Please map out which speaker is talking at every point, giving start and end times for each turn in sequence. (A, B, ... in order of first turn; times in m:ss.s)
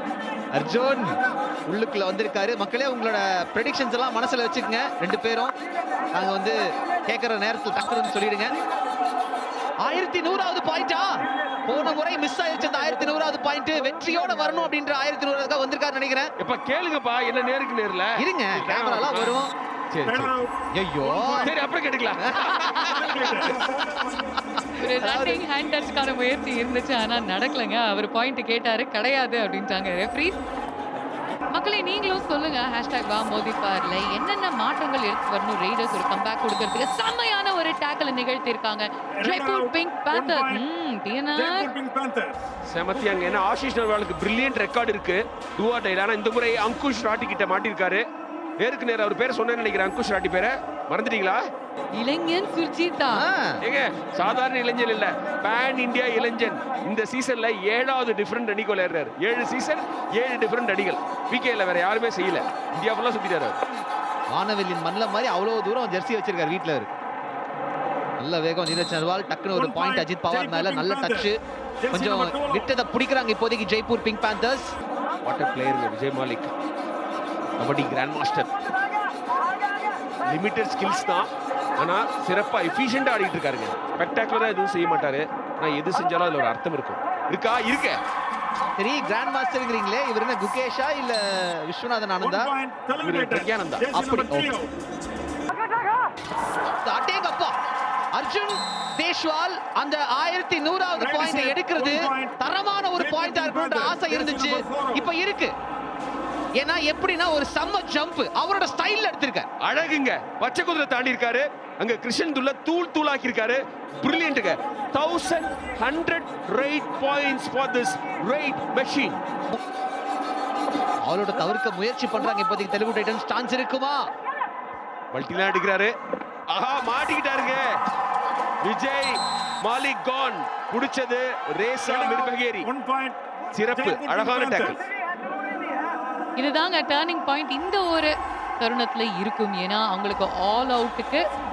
0:00.5-0:05.5 A
0:06.1-0:08.5 A
0:09.8-0:16.3 A
0:16.4-0:19.4 B
0:18.2-0:19.5 A
0:19.9-0:20.4 B
0:20.1-0:21.5 C
0:20.7-0:21.5 A
0:21.4-0:23.2 B
0:22.2-0:22.8 A
0:22.8-0:23.6 C
0:23.3-0:25.4 A
0:24.8-0:30.4 D
0:31.5-0:41.7 D
0:39.2-0:40.6 C
0:41.3-0:42.4 C
0:42.7-0:48.0 B
0:48.6-0:51.4 B
0:51.9-0:53.2 D
0:53.1-0:53.6 A
0:53.6-1:03.6 B
1:04.3-1:06.9 A
1:08.2-1:11.4 A
1:09.5-1:11.3 C
1:11.8-1:12.7 C
1:11.9-1:14.7 A
1:15.2-1:16.5 B
1:17.6-1:18.5 B
1:20.3-1:28.0 B
1:28.8-1:32.5 A
1:32.2-1:34.7 C
1:33.0-1:33.9 B
1:33.9-1:34.5 A
1:36.8-1:37.6 A
1:38.1-1:45.5 A
1:41.0-1:42.4 C
1:43.0-1:45.1 C
1:46.6-1:49.5 A
1:49.6-1:59.2 B
2:01.1-2:04.0 A
2:05.1-2:05.9 B
2:06.5-2:07.6 B
2:08.6-2:09.1 B
2:09.6-2:12.7 B
2:11.8-2:13.2 C
2:13.6-2:14.8 B
2:13.7-2:14.8 C
2:16.4-2:21.2 D